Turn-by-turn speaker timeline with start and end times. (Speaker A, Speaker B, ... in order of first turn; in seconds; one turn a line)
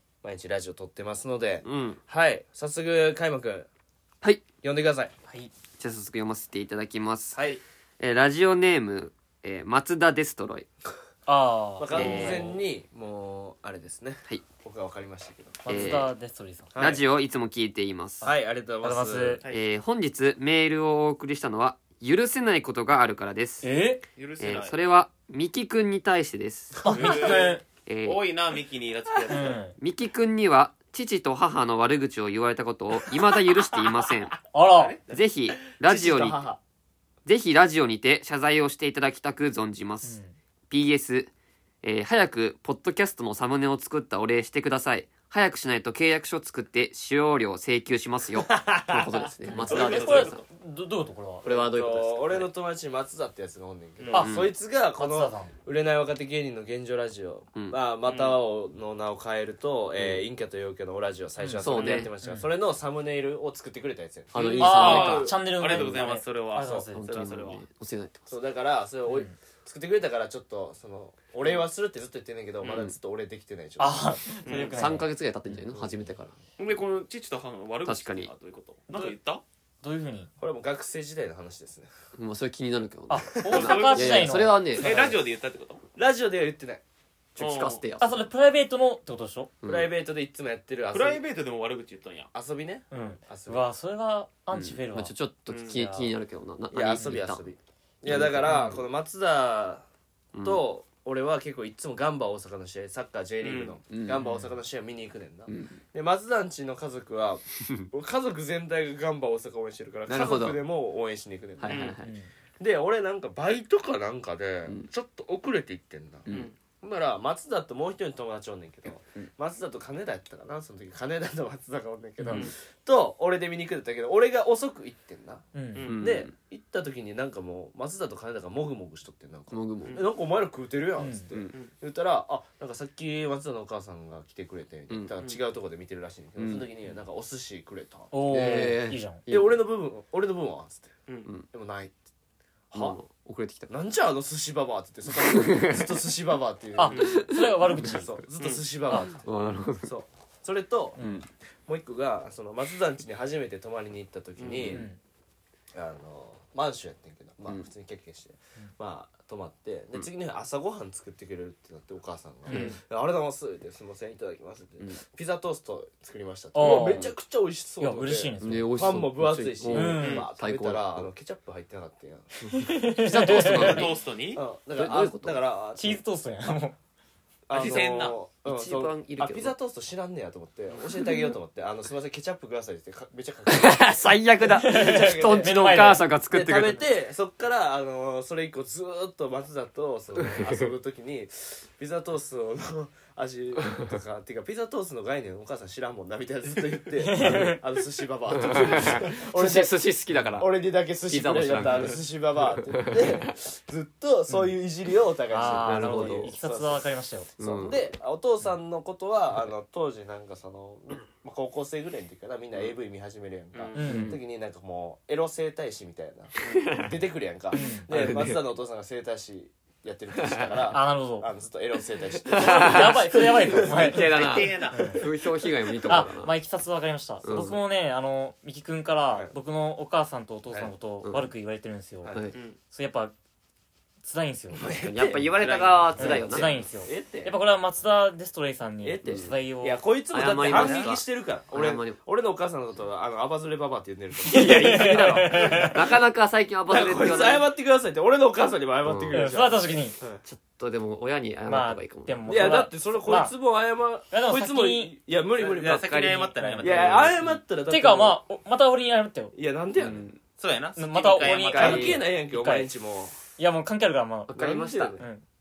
Speaker A: 0.2-3.7
Speaker B: 1.6-2.0
Speaker A: 4.6-5.1
Speaker B: 5.8-7.4
Speaker A: 7.3-7.6
Speaker B: 8.0-10.7
Speaker C: 11.2-12.4
Speaker A: 11.8-15.9
Speaker B: 11.9-12.6
Speaker C: 15.6-16.7
Speaker B: 15.7-16.1
Speaker A: 16.7-17.0
Speaker B: 16.8-18.3
Speaker A: 18.2-19.4
Speaker C: 18.2-19.4
Speaker B: 19.5-23.7
Speaker C: 23.6-24.0
Speaker D: 24.2-24.8
Speaker B: 24.4-26.9
Speaker A: 26.8-27.5
Speaker C: 26.8-27.6
Speaker D: 26.9-29.6
Speaker B: 27.9-28.2
Speaker C: 29.3-29.7
Speaker B: 29.8-34.3
Speaker C: 34.5-35.0
Speaker B: 35.1-36.4
Speaker A: 35.8-36.6
Speaker B: 37.2-40.2
Speaker C: 40.0-40.3
Speaker B: 40.7-41.3
Speaker B: 41.8-50.4
Speaker A: 48.5-49.3
Speaker C: 49.5-51.5
Speaker D: 49.5-50.4
Speaker B: 51.4-52.5
Speaker A: 51.4-65.0
Speaker C: 54.1-55.5
Speaker B: 54.1-54.5
Speaker D: 58.1-58.4
Speaker B: 60.0-60.2
Speaker C: 61.4-62.5
Speaker B: 61.6-62.1
Speaker D: 61.8-62.1
Speaker B: 64.3-65.3
Speaker C: 64.6-67.1
Speaker D: 64.6-67.6
Speaker B: 66.9-68.3
Speaker A: 68.3-74.2
Speaker C: 69.0-69.3
Speaker D: 72.6-72.9
Speaker C: 73.8-75.1
Speaker D: 74.4-74.8
Speaker B: 74.5-76.3
Speaker A: 75.7-76.1
Speaker D: 76.6-79.4
Speaker B: 77.8-78.3
Speaker C: 79.8-80.3
Speaker A: 80.4-81.9
Speaker B: 82.2-84.9
Speaker C: 83.1-85.2
Speaker A: 83.4-84.2
Speaker D: 83.6-85.8
Speaker A: 86.0-86.8
Speaker B: 87.3-88.1
Speaker D: 87.4-87.8
Speaker C: 88.0-89.5
Speaker B: 89.6-89.9
Speaker A: 89.7-91.2
Speaker D: 90.9-92.3
Speaker A: 92.3-93.6
Speaker C: 92.9-95.1
Speaker B: 94.5-97.4
Speaker D: 95.5-95.8
Speaker C: 95.7-96.1
Speaker A: 96.7-99.8
Speaker B: 98.0-98.8
Speaker C: 98.5-98.8
Speaker B: 100.3-100.6
Speaker A: 100.4-111.9
Speaker D: 103.4-103.8
Speaker B: 103.9-104.2
Speaker C: 104.1-104.5
Speaker B: 105.5-105.8
Speaker B: 110.1-110.6
Speaker B: 111.6-112.1
Speaker D: 111.7-112.0
Speaker C: 112.0-112.3
Speaker A: 112.6-116.3
Speaker D: 116.3-116.5
Speaker A: 116.8-125.4
Speaker C: 122.2-122.5
Speaker C: 125.5-125.9
Speaker D: 125.7-126.0
Speaker B: 125.8-126.3
Speaker A: 126.0-138.7
Speaker B: 129.5-130.1
Speaker C: 131.0-131.3
Speaker B: 136.4-136.7
Speaker C: 138.1-139.2
Speaker B: 138.2-139.6
Speaker A: 139.3-140.9
Speaker A: 141.5-141.9
Speaker A: 142.7-143.0
Speaker B: 142.7-143.7
Speaker A: 143.7-147.2
Speaker B: 145.2-145.9
Speaker C: 146.8-148.1
Speaker D: 146.9-147.2
Speaker B: 147.0-147.9
Speaker A: 147.8-149.2
Speaker B: 149.2-149.9
Speaker A: 149.8-151.0
Speaker B: 151.0-151.3
Speaker A: 151.7-154.9
Speaker D: 154.4-154.7
Speaker B: 154.4-154.8
Speaker C: 154.6-155.0
Speaker A: 155.7-176.0
Speaker C: 162.5-162.8
Speaker C: 166.5-167.1
Speaker B: 166.6-167.1
Speaker C: 167.8-168.7
Speaker B: 168.4-171.1
Speaker C: 169.7-170.2
Speaker D: 170.0-170.3
Speaker C: 172.5-173.9
Speaker B: 173.1-173.8
Speaker D: 173.4-174.4
Speaker B: 174.8-175.4
Speaker C: 175.8-176.8
Speaker A: 177.5-183.9
Speaker D: 177.5-178.2
Speaker B: 178.4-179.5
Speaker B: 183.5-186.8
Speaker A: 184.5-185.8
Speaker C: 184.5-186.1
Speaker A: 186.3-199.8
Speaker B: 190.2-190.7
Speaker C: 197.0-197.6
Speaker B: 197.2-197.5
Speaker B: 198.3-200.5
Speaker A: 200.4-224.0
Speaker B: 201.1-202.0
Speaker B: 202.7-203.2
Speaker C: 205.3-207.3
Speaker B: 205.5-206.3
Speaker B: 207.4-207.9
Speaker D: 213.5-213.8
Speaker C: 213.7-214.2
Speaker B: 213.8-214.2
Speaker B: 216.4-216.9
Speaker C: 217.5-218.2
Speaker B: 217.9-218.4
Speaker B: 220.2-220.4
Speaker C: 220.7-221.3
Speaker B: 222.2-226.3
Speaker C: 222.3-225.1
Speaker D: 223.8-225.0
Speaker C: 225.9-233.1
Speaker B: 227.2-227.6
Speaker B: 231.0-231.3
Speaker B: 232.1-232.3
Speaker C: 234.0-234.7
Speaker A: 234.5-237.3
Speaker B: 234.7-236.5
Speaker D: 235.4-235.9
Speaker C: 236.0-239.8
Speaker A: 238.8-245.9
Speaker B: 239.0-239.3
Speaker B: 240.1-242.0
Speaker C: 240.4-240.8
Speaker D: 240.5-240.9
Speaker C: 244.2-245.9
Speaker B: 244.3-247.5
Speaker A: 246.7-250.2
Speaker B: 248.8-249.4
Speaker C: 249.1-249.9
Speaker B: 250.2-252.6
Speaker C: 251.4-253.3
Speaker A: 252.3-258.2
Speaker C: 254.1-254.9
Speaker D: 255.4-257.0
Speaker C: 256.3-259.3
Speaker B: 256.8-257.4
Speaker A: 259.3-260.0
Speaker B: 259.8-260.2
Speaker D: 260.4-261.9
Speaker C: 260.8-262.7
Speaker B: 261.2-262.0
Speaker A: 261.5-263.1
Speaker C: 263.4-265.2
Speaker B: 264.3-264.9
Speaker A: 264.3-265.1